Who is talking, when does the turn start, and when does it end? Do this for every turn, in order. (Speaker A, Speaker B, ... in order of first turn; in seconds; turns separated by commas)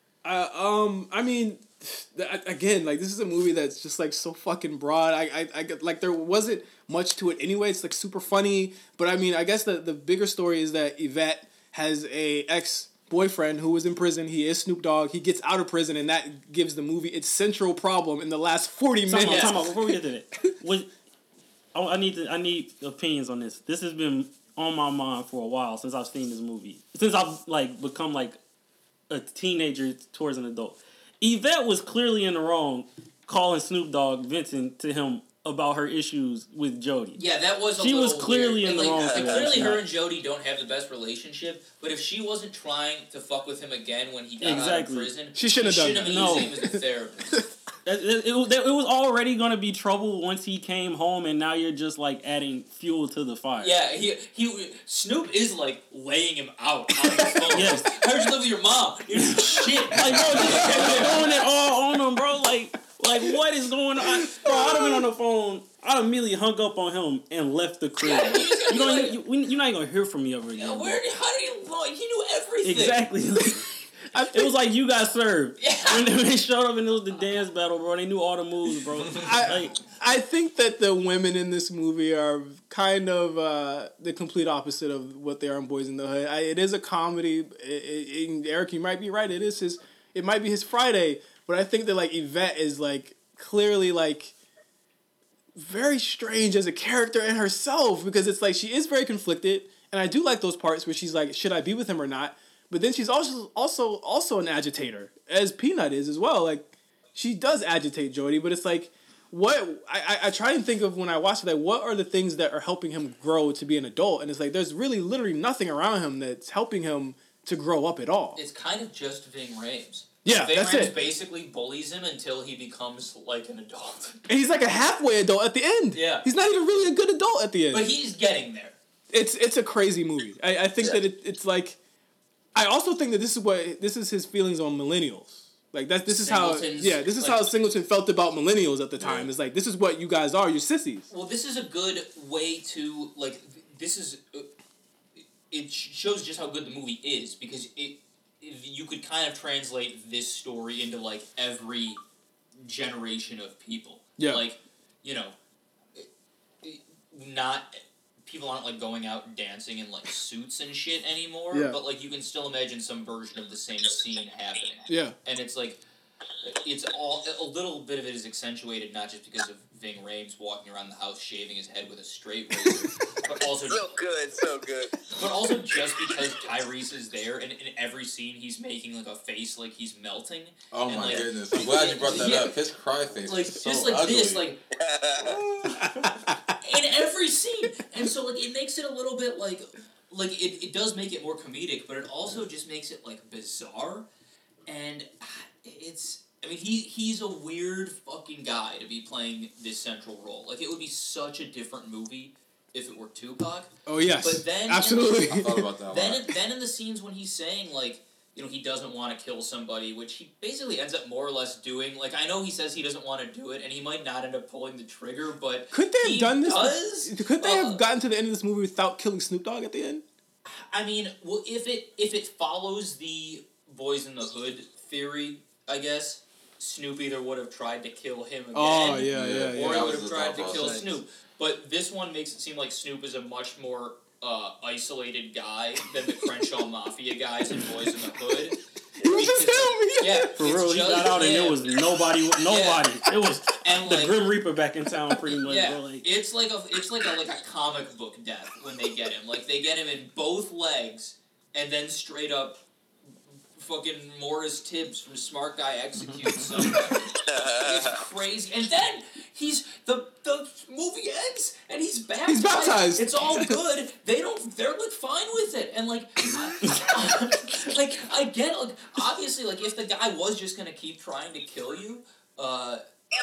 Speaker A: 0.2-20.5, Speaker B: 19.1-20.9, Speaker C: 19.2-19.5, Speaker B: 21.7-28.4, Speaker B: 29.1-37.2, Speaker C: 37.1-47.4, Speaker B: 37.8-39.8, Speaker D: 38.6-39.6, Speaker B: 44.4-45.1, Speaker A: 45.3-46.8, Speaker B: 46.0-46.5, Speaker B: 47.8-53.8, Speaker C: 53.6-61.4, Speaker A: 57.2-57.5, Speaker B: 57.5-57.9, Speaker B: 59.3-71.0, Speaker A: 64.0-65.0, Speaker C: 68.0-69.2, Speaker C: 70.5-73.0, Speaker B: 72.6-79.9, Speaker A: 74.1-74.6, Speaker C: 75.6-76.1, Speaker A: 79.2-94.3, Speaker A: 95.5-118.4, Speaker C: 118.3-124.2, Speaker A: 120.2-120.9, Speaker A: 124.3-127.9, Speaker C: 125.9-126.3, Speaker C: 127.7-128.8, Speaker A: 129.1-131.8, Speaker A: 132.5-141.1, Speaker C: 136.2-137.4, Speaker E: 139.0-139.3, Speaker C: 141.1-144.5, Speaker C: 145.5-152.0, Speaker C: 152.6-155.3, Speaker A: 154.2-154.4, Speaker C: 156.6-165.8, Speaker A: 161.5-161.8, Speaker A: 164.9-165.1, Speaker C: 166.4-173.8, Speaker D: 173.7-175.2, Speaker C: 175.1-182.5, Speaker E: 180.7-184.5, Speaker C: 183.3-184.6, Speaker D: 184.8-185.3, Speaker E: 185.2-186.2, Speaker A: 185.8-186.4, Speaker C: 186.6-194.1, Speaker C: 194.7-217.8, Speaker A: 203.8-205.7, Speaker E: 205.3-206.3, Speaker A: 215.7-220.0, Speaker C: 220.4-241.6, Speaker A: 228.5-229.9, Speaker E: 229.1-231.0, Speaker A: 239.0-240.3, Speaker B: 240.4-246.0, Speaker C: 242.5-242.9, Speaker C: 243.6-244.2, Speaker C: 245.4-252.6, Speaker C: 253.5-272.8, Speaker D: 257.1-257.9, Speaker A: 262.2-263.5